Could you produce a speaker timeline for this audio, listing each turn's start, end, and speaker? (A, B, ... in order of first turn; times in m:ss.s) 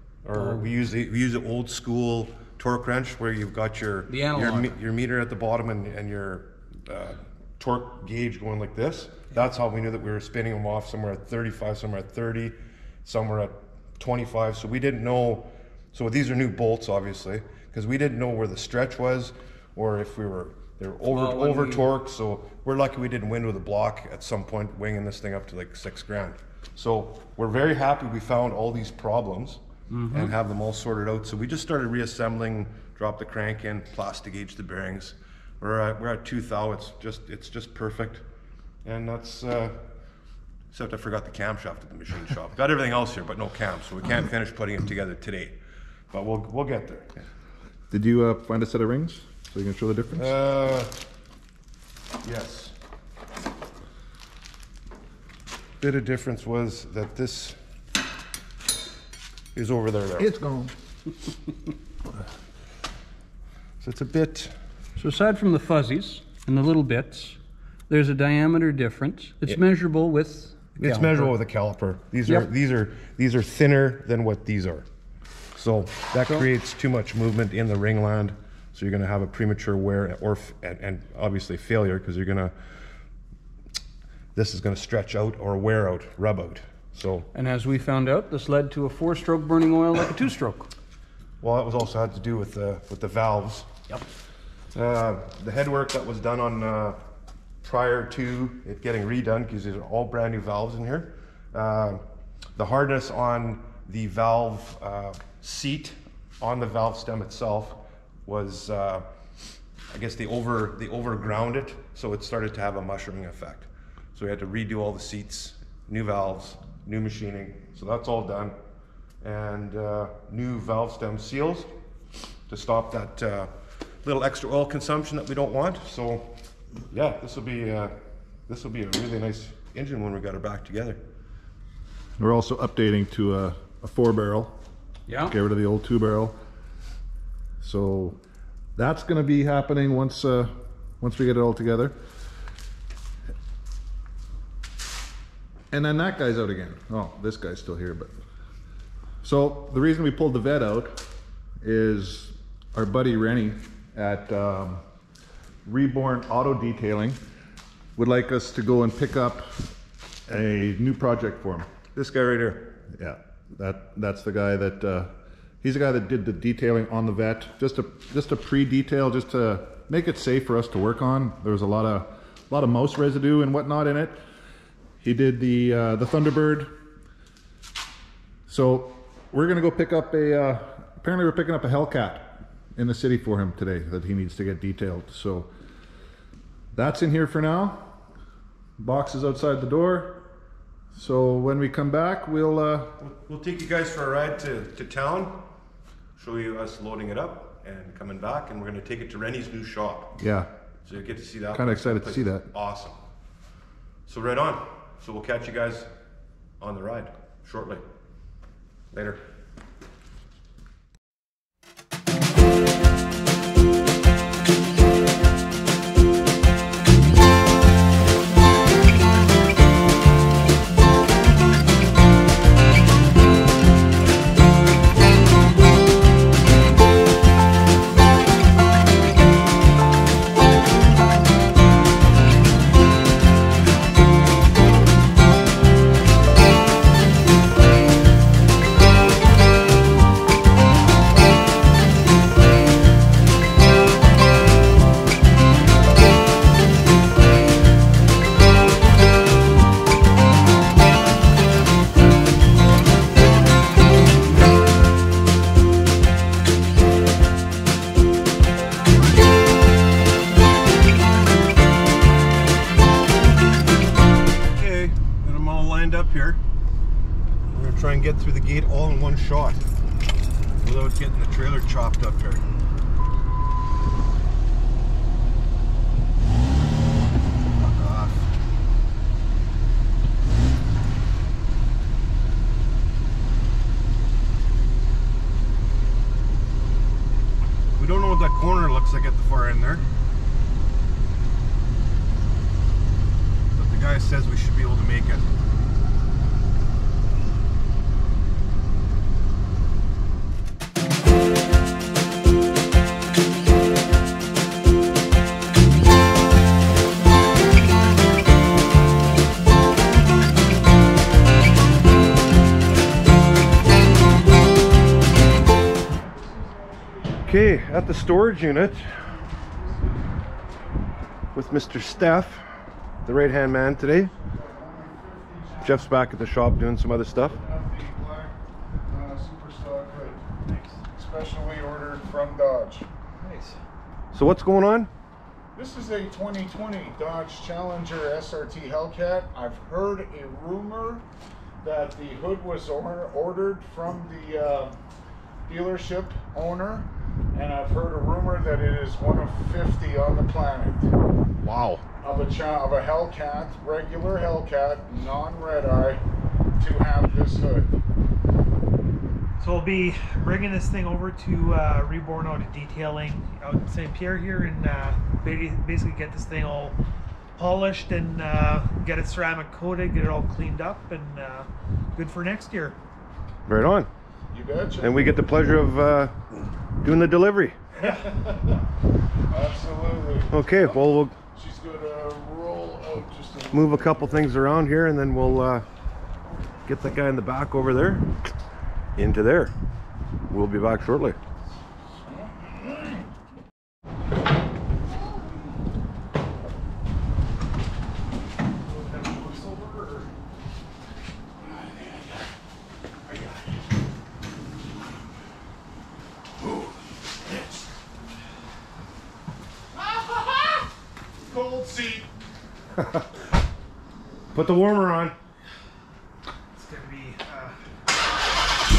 0:00.2-0:38.2 A
0:00.3-0:00.6 B
0:04.1-0:04.7 B
0:21.1-0:21.9 B
0:29.9-0:30.3 B
0:38.8-0:39.8 A
0:40.7-0:45.6 A
0:46.1-0:47.1 A
0:47.9-0:50.3 C
0:50.2-0:50.9 A
0:52.2-0:52.7 A
0:55.8-0:57.6 A
0:59.5-1:00.3 A
1:00.2-1:00.7 C
1:03.8-1:04.5 A
1:05.0-1:07.4 B
1:07.9-1:11.3 B
1:10.8-1:14.9 A
1:15.5-1:22.5 A
1:24.3-1:27.3 A
1:27.3-1:30.7 B
1:31.4-1:33.7 A
1:34.7-1:37.0 A
1:37.6-1:42.0 A
1:42.6-1:49.0 A
1:49.9-1:58.6 A
1:59.2-2:01.7 A
2:02.5-2:06.4 A
2:06.9-2:07.9 A
2:08.5-2:11.0 A
2:12.2-2:14.6 C
2:15.1-2:15.3 B
2:15.3-2:16.4 C
2:17.6-2:18.2 C
2:18.8-2:22.0 C
2:25.7-2:28.2 C
2:29.2-2:31.1 C
2:31.6-2:34.8 C
2:35.6-2:37.2 C
2:38.0-2:39.7 C
2:40.3-2:41.7 C
2:41.9-2:42.8 A
2:42.9-2:54.2 C
2:55.0-2:56.8 C
2:58.5-3:05.5 C
3:06.7-3:08.0 C
3:08.8-3:10.2 C
3:10.9-3:13.0 C
3:13.0-3:15.4 A
3:16.2-3:20.2 A
3:20.2-3:20.5 C
3:20.8-3:23.0 A
3:21.5-3:22.5 C
3:24.1-3:25.9 A
3:26.6-3:27.8 A
3:28.9-3:29.2 A
4:24.5-4:26.4 A
4:27.5-4:29.6 A
4:30.6-4:32.4 A
4:37.5-4:38.3 A
4:47.8-4:49.8 A
4:53.5-4:55.3 A
5:15.9-5:17.3 D
5:17.2-5:18.9 A
5:19.3-5:20.7 D
5:21.3-5:22.4 A
5:23.0-5:24.1 A
5:24.1-5:25.8 D
5:25.6-5:27.4 A
5:27.3-5:28.3 D
5:28.9-5:30.3 D
5:30.4-5:30.8 E
5:30.9-5:32.9 D
5:33.2-5:33.6 E
5:34.1-5:34.9 A
5:35.5-5:41.0 D
5:41.6-5:44.8 D
5:45.5-5:50.9 D
5:51.4-5:51.8 C
5:51.4-5:51.8 A
5:52.0-5:56.0 D
5:56.6-5:57.8 D
5:59.4-6:06.8 E
6:07.4-6:12.8 E
6:13.5-6:13.9 A
6:14.3-6:15.2 D
6:14.8-6:16.1 A
6:16.8-6:17.6 A
6:17.8-6:18.1 E
6:17.8-6:18.3 D
6:19.3-6:24.3 D
6:20.3-6:21.1 A
6:23.5-6:25.7 A
6:26.6-6:28.1 A
6:29.0-6:29.5 A
6:30.3-6:31.2 A
6:38.6-6:40.1 E
6:51.3-6:52.0 D
6:54.3-6:55.2 A
6:56.5-6:57.6 E